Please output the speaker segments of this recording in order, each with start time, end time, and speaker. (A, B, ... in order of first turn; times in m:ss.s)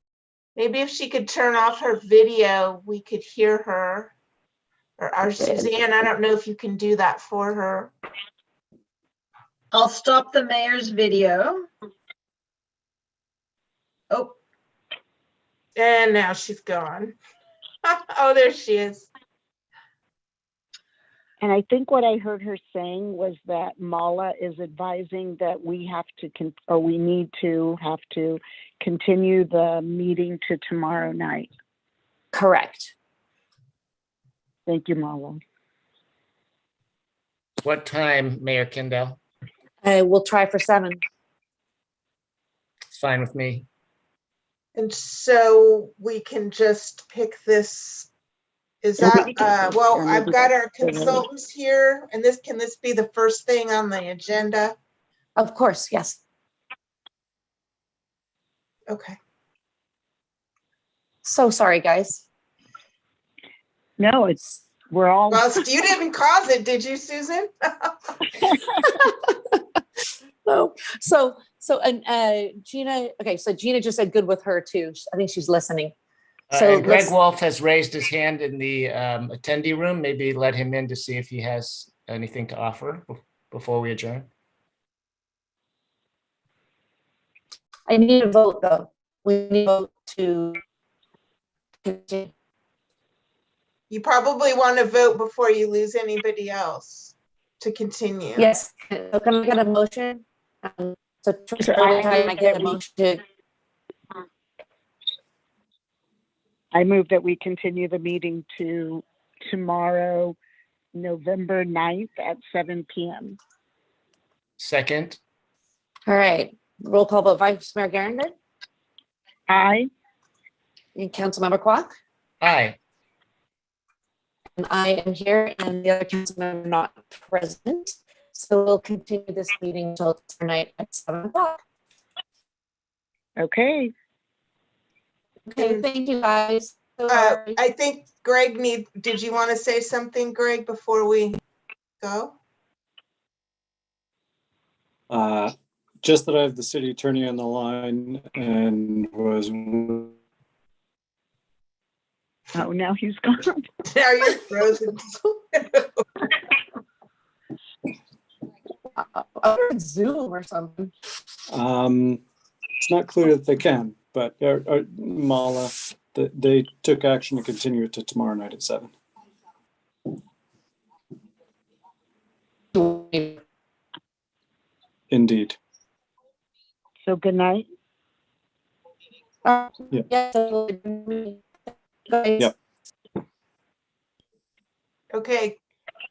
0:00.6-0:04.1 A
0:05.0-0:07.9 A
0:05.4-0:05.7 B
0:09.7-0:11.7 C
0:15.8-0:17.2 A
0:17.8-0:19.1 A
0:21.4-0:31.5 D
0:32.3-0:32.9 B
0:34.7-0:35.4 D
0:37.6-0:39.2 E
0:39.8-0:41.0 B
0:42.9-0:43.7 E
0:44.8-0:48.1 A
0:48.8-0:54.8 A
0:49.0-0:51.2 D
0:55.4-0:56.2 B
0:58.9-0:59.2 A
1:01.2-1:02.2 B
1:04.0-1:05.6 D
1:05.3-1:07.9 A
1:08.8-1:09.5 B
1:10.4-1:15.9 B
1:16.5-1:24.3 E
1:16.5-1:17.1 B
1:27.9-1:30.6 B
1:31.8-1:32.3 B
1:33.9-1:38.5 A
1:38.4-1:43.2 B
1:41.6-1:42.8 D
1:46.7-1:50.4 D
1:50.9-1:53.4 D
1:54.6-1:55.2 E
1:56.1-1:58.3 B
1:59.5-1:59.9 D
2:01.0-2:01.9 B
2:02.4-2:02.8 E
2:04.6-2:11.6 B
2:13.4-2:13.9 D
2:15.5-2:17.6 B
2:15.6-2:15.8 A
2:17.1-2:21.4 A
2:22.0-2:22.4 A
2:25.1-2:30.1 F
2:32.5-2:33.7 D
2:33.9-2:36.0 A
2:38.9-2:40.9 B
2:41.5-2:42.2 F
2:42.8-2:48.9 F
2:52.7-2:53.4 B
2:55.1-2:55.6 F
2:57.0-2:57.7 D
2:59.4-3:01.5 B
3:02.1-3:02.5 B
3:05.1-3:05.6 A